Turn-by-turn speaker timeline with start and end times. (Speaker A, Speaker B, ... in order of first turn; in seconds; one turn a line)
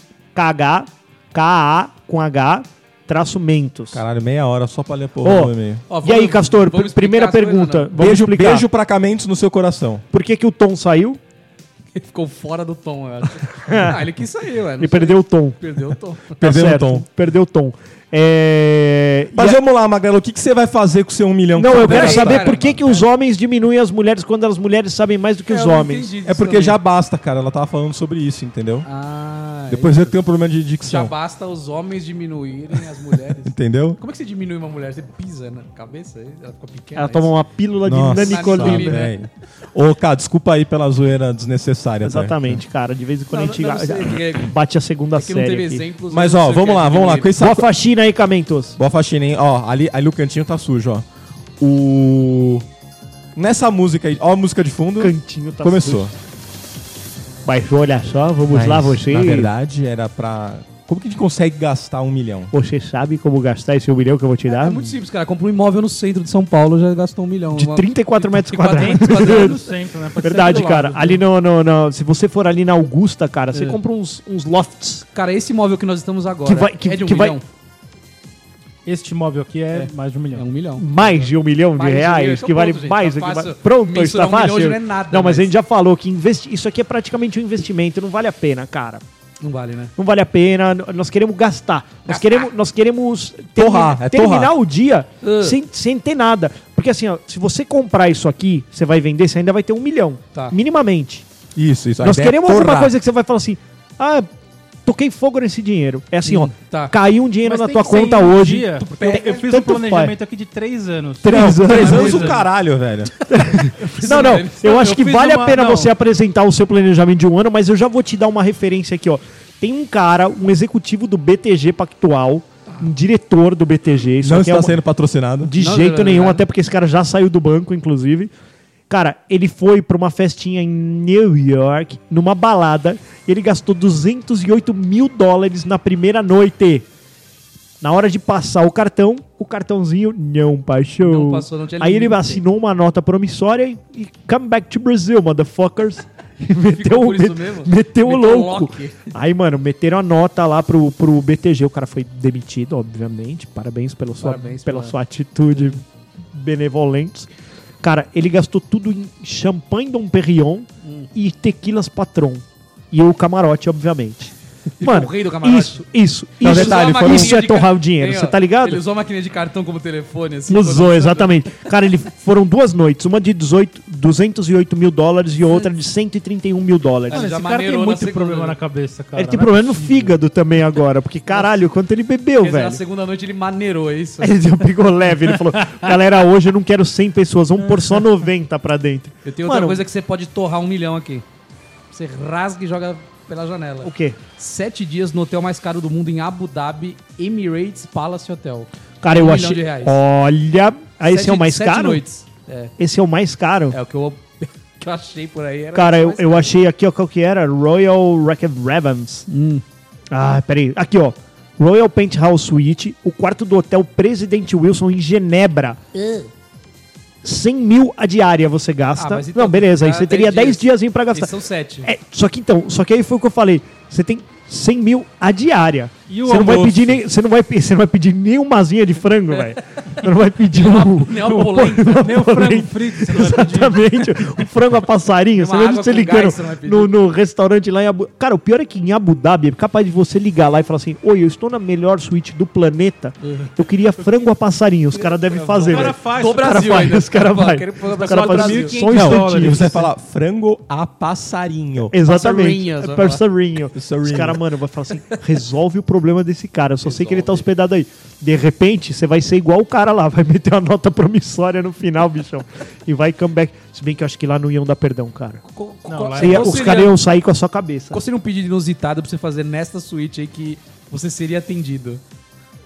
Speaker A: 0.3-4.0
Speaker B: 3.9-5.8
Speaker A: 5.2-8.7
Speaker C: 5.9-7.9
Speaker B: 8.0-10.0
Speaker A: 10.1-11.2
Speaker C: 11.9-16.4
Speaker A: 13.6-14.1
Speaker A: 14.8-15.6
Speaker B: 16.4-17.1
Speaker A: 16.4-19.6
Speaker B: 19.4-22.6
Speaker A: 21.5-26.1
Speaker C: 21.7-23.1
Speaker C: 25.5-26.8
Speaker B: 26.2-28.9
Speaker C: 28.8-30.2
Speaker B: 29.7-31.1
Speaker C: 30.8-37.3
Speaker B: 33.4-34.0
Speaker A: 36.9-39.0
Speaker B: 37.8-42.6
Speaker C: 38.0-39.1
Speaker A: 42.0-45.8
Speaker C: 43.3-44.5
Speaker C: 45.1-47.3
Speaker B: 46.1-47.7
Speaker A: 47.4-48.8
Speaker B: 48.8-51.0
Speaker B: 51.6-52.6
Speaker B: 53.4-56.1
Speaker A: 55.0-56.1
Speaker A: 57.4-59.5
Speaker B: 58.5-62.5
Speaker A: 62.5-64.9
Speaker C: 64.5-69.6
Speaker A: 67.5-69.6
Speaker D: 68.7-71.2
Speaker A: 70.2-75.0
Speaker C: 73.5-73.8
Speaker C: 75.1-77.4
Speaker A: 76.4-77.4
Speaker D: 78.8-80.5
Speaker C: 79.7-85.5
Speaker A: 80.8-89.0
Speaker C: 89.4-89.9
Speaker A: 90.0-101.2
Speaker C: 92.1-92.5
Speaker B: 93.6-94.5
Speaker C: 95.2-95.6
Speaker B: 101.5-102.9
Speaker A: 102.0-104.3
Speaker A: 104.8-110.1
Speaker C: 106.2-106.9
Speaker D: 107.4-112.4
Speaker C: 108.8-109.4
Speaker A: 111.2-112.3
Speaker B: 111.3-113.1
Speaker C: 111.7-112.3
Speaker A: 113.3-124.8
Speaker C: 113.3-114.7
Speaker D: 114.0-115.9
Speaker B: 124.2-125.5
Speaker A: 125.4-128.3
Speaker C: 125.6-126.4
Speaker A: 128.9-136.8
Speaker A: 137.8-157.3
Speaker C: 141.0-142.4
Speaker C: 146.7-149.1
Speaker C: 154.2-154.9
Speaker C: 155.5-155.8
Speaker A: 157.8-168.8
Speaker C: 160.8-161.1
Speaker C: 164.8-165.8
Speaker B: 166.4-167.4
Speaker C: 166.4-171.3
Speaker A: 170.5-177.2
Speaker C: 177.1-178.6
Speaker D: 177.1-180.2
Speaker A: 179.2-182.8
Speaker C: 181.3-181.6
Speaker C: 182.4-184.3
Speaker A: 184.2-189.8
Speaker C: 189.2-191.2
Speaker C: 191.9-200.0
Speaker A: 193.8-194.2
Speaker A: 199.0-202.0
Speaker C: 201.0-202.7
Speaker A: 202.8-203.8
Speaker C: 203.7-206.5
Speaker A: 205.7-209.2
Speaker C: 209.3-209.6
Speaker A: 210.1-215.8
Speaker A: 217.2-249.7
Speaker C: 218.9-221.9
Speaker D: 226.1-227.0
Speaker C: 229.3-232.2
Speaker D: 231.4-234.1
Speaker C: 235.3-236.9
Speaker C: 243.2-243.5
Speaker C: 245.0-248.8
Speaker D: 245.5-246.9
Speaker D: 247.9-249.9
Speaker B: 248.9-251.9
Speaker A: 251.9-265.4
Speaker C: 252.0-253.2
Speaker B: 253.7-254.4
Speaker C: 256.8-257.5
Speaker C: 265.4-267.0
Speaker D: 265.9-266.8
Speaker A: 266.2-268.0
Speaker C: 267.9-272.0